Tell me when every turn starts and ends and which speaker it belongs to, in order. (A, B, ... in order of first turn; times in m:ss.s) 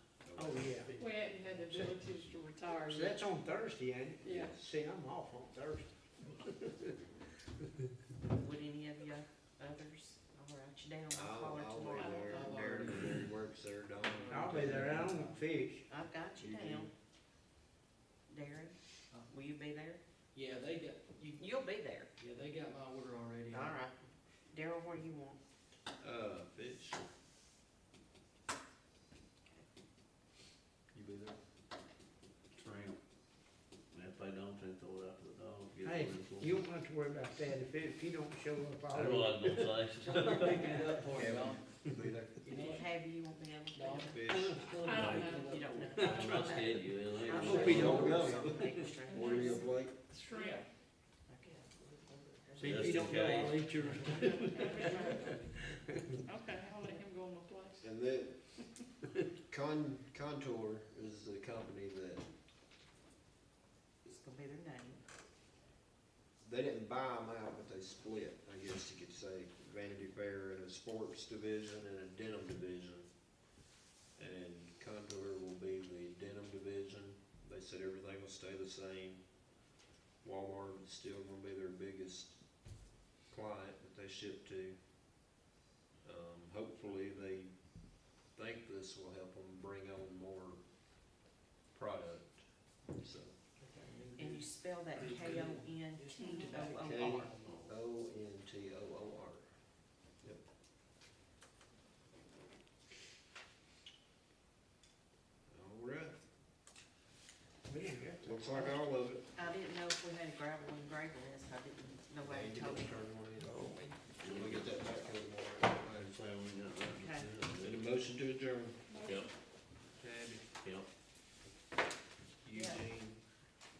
0:00.2-0:00.9 A
0:00.4-0:01.2 B
0:01.0-0:03.2 C
0:02.8-0:06.7 B
0:04.2-0:04.6 C
0:04.3-0:04.8 A
0:08.3-0:12.5 D
0:11.1-0:15.1 A
0:12.0-0:12.5 C
0:12.2-0:13.2 E
0:14.0-0:15.4 E
0:14.3-0:15.8 B
0:15.9-0:16.9 D
0:16.4-0:16.9 A
0:18.3-0:20.0 D
0:20.3-0:21.5 E
0:21.4-0:22.1 D
0:22.2-0:23.8 E
0:23.5-0:25.4 D
0:26.0-0:27.1 A
0:30.9-0:31.4 A
0:32.5-0:33.0 F
0:33.9-0:36.6 F
0:35.8-0:40.4 B
0:38.9-0:41.1 F
0:39.9-0:41.9 E
0:40.4-0:40.8 D
0:41.1-0:42.4 A
0:42.4-0:42.8 E
0:42.5-0:44.4 D
0:43.7-0:46.6 E
0:44.1-0:44.6 A
0:44.3-0:44.7 B
0:44.8-0:45.6 C
0:44.9-0:45.3 F
0:45.2-0:49.6 D
0:45.9-0:46.2 B
0:46.0-0:48.2 F
0:47.2-0:49.6 E
0:47.4-0:50.0 A
0:49.3-0:50.6 C
0:50.3-0:50.6 E
0:51.3-0:51.6 D
0:51.8-0:53.2 E
0:52.5-0:56.0 B
0:52.6-0:52.9 D
0:52.6-0:53.8 F
0:53.8-0:55.3 E
0:54.3-0:55.3 C
0:54.5-0:55.4 D
0:56.2-0:58.0 C
0:57.8-0:58.6 A
0:59.5-1:02.2 A
1:04.0-1:05.0 D
1:06.4-1:13.1 A
1:14.2-1:19.2 A
1:20.2-1:22.4 A
1:23.3-1:24.8 A
1:26.0-1:30.6 A
1:31.7-1:33.3 A
1:33.6-1:37.6 E
1:34.1-1:37.3 D
1:36.2-1:36.5 C
1:36.8-1:39.5 A
1:37.4-1:37.7 F
1:45.5-1:46.2 A
1:47.7-1:48.7 B
1:48.2-1:49.2 A
1:49.3-1:54.0 D
1:52.2-1:56.2 A
1:53.4-1:53.7 B
1:54.2-1:54.7 F
1:55.8-1:57.8 F
1:56.9-1:57.3 D
1:57.6-1:59.0 A
1:58.9-1:59.3 C
1:59.0-1:59.3 F
1:59.9-2:00.4 A
2:00.6-2:00.9 F
2:02.4-2:03.2 A
2:02.5-2:02.8 D